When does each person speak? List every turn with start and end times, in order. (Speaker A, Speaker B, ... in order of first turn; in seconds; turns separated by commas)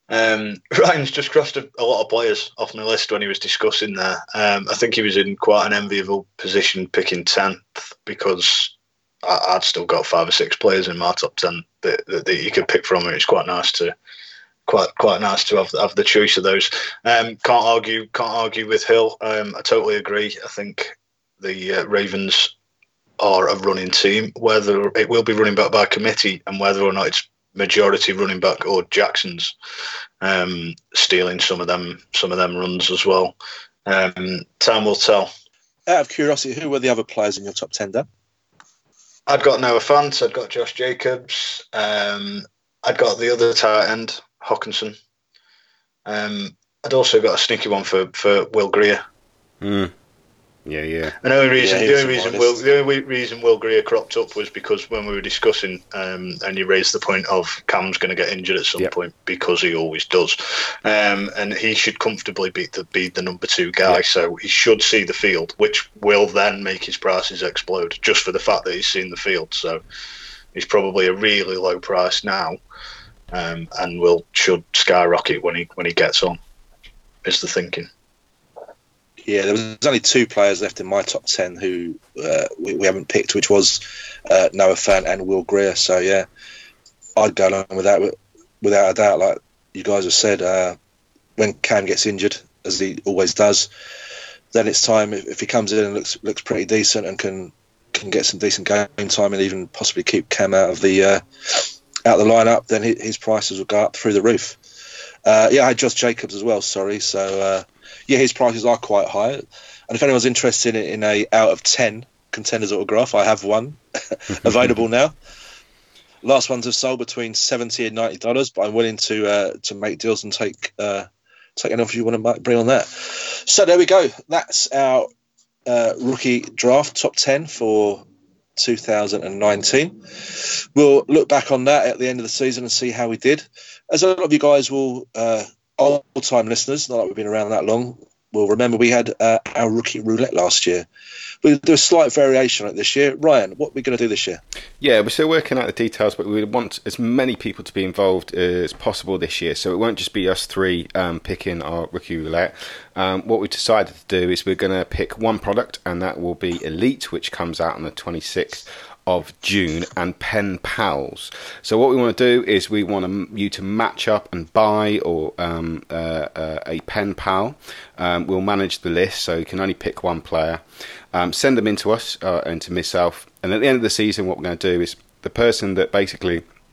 Speaker A: 0.1-13.9, Speaker A: 14.7-22.5, Speaker A: 23.2-29.5, Speaker A: 30.2-33.3, Speaker A: 33.9-35.3, Speaker B: 35.9-38.0, Speaker A: 39.3-45.0, Speaker A: 46.0-49.0, Speaker C: 49.6-49.9, Speaker C: 50.6-51.1, Speaker A: 51.2-69.8, Speaker B: 51.6-52.6, Speaker A: 70.5-72.6, Speaker A: 73.3-76.4, Speaker A: 77.2-77.9, Speaker B: 79.2-86.2, Speaker B: 87.2-90.8, Speaker B: 91.4-93.7, Speaker B: 94.5-104.6, Speaker B: 105.2-115.1, Speaker B: 116.2-125.1, Speaker B: 125.7-128.0, Speaker B: 128.6-140.8, Speaker B: 141.4-144.4, Speaker C: 144.8-170.6, Speaker C: 171.1-176.4